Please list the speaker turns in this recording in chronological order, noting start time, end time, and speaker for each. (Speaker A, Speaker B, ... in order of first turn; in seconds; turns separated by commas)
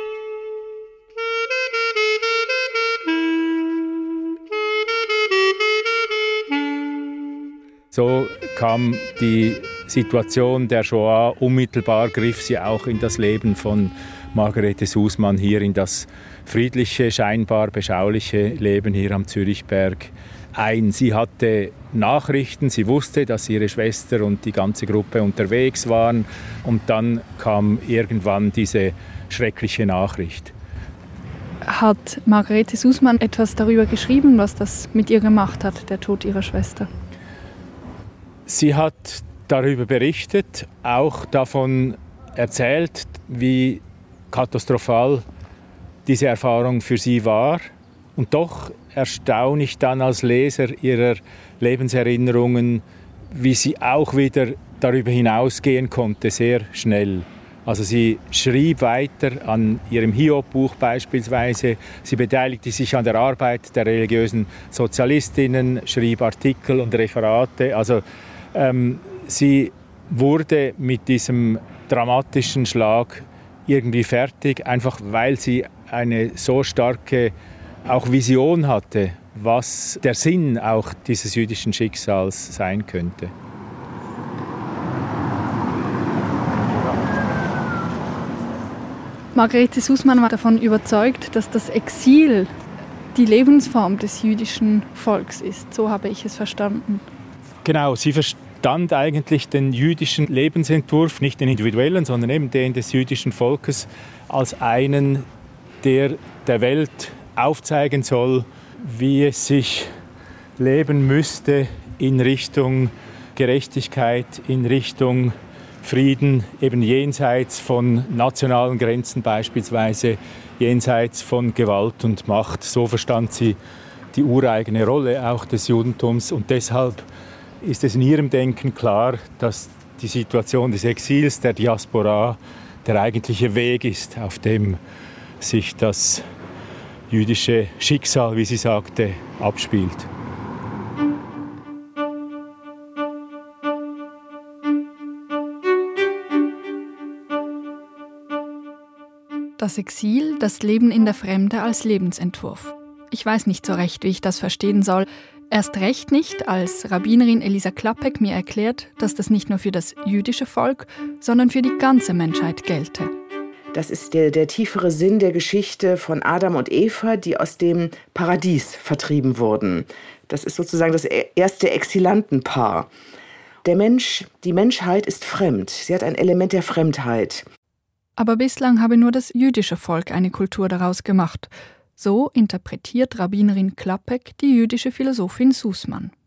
Speaker A: 7.9-30.5, Speaker B: 31.6-36.9, Speaker A: 38.5-45.2, Speaker A: 46.0-77.3, Speaker A: 77.8-83.3, Speaker B: 89.3-92.5, Speaker B: 93.1-97.0, Speaker A: 97.6-105.2, Speaker A: 105.8-109.9, Speaker A: 110.6-123.6, Speaker A: 124.1-127.0, Speaker A: 127.6-134.8, Speaker A: 135.4-136.2, Speaker A: 137.1-140.1, Speaker B: 149.6-163.1, Speaker C: 163.7-172.9, Speaker C: 173.6-177.4, Speaker B: 178.2-186.1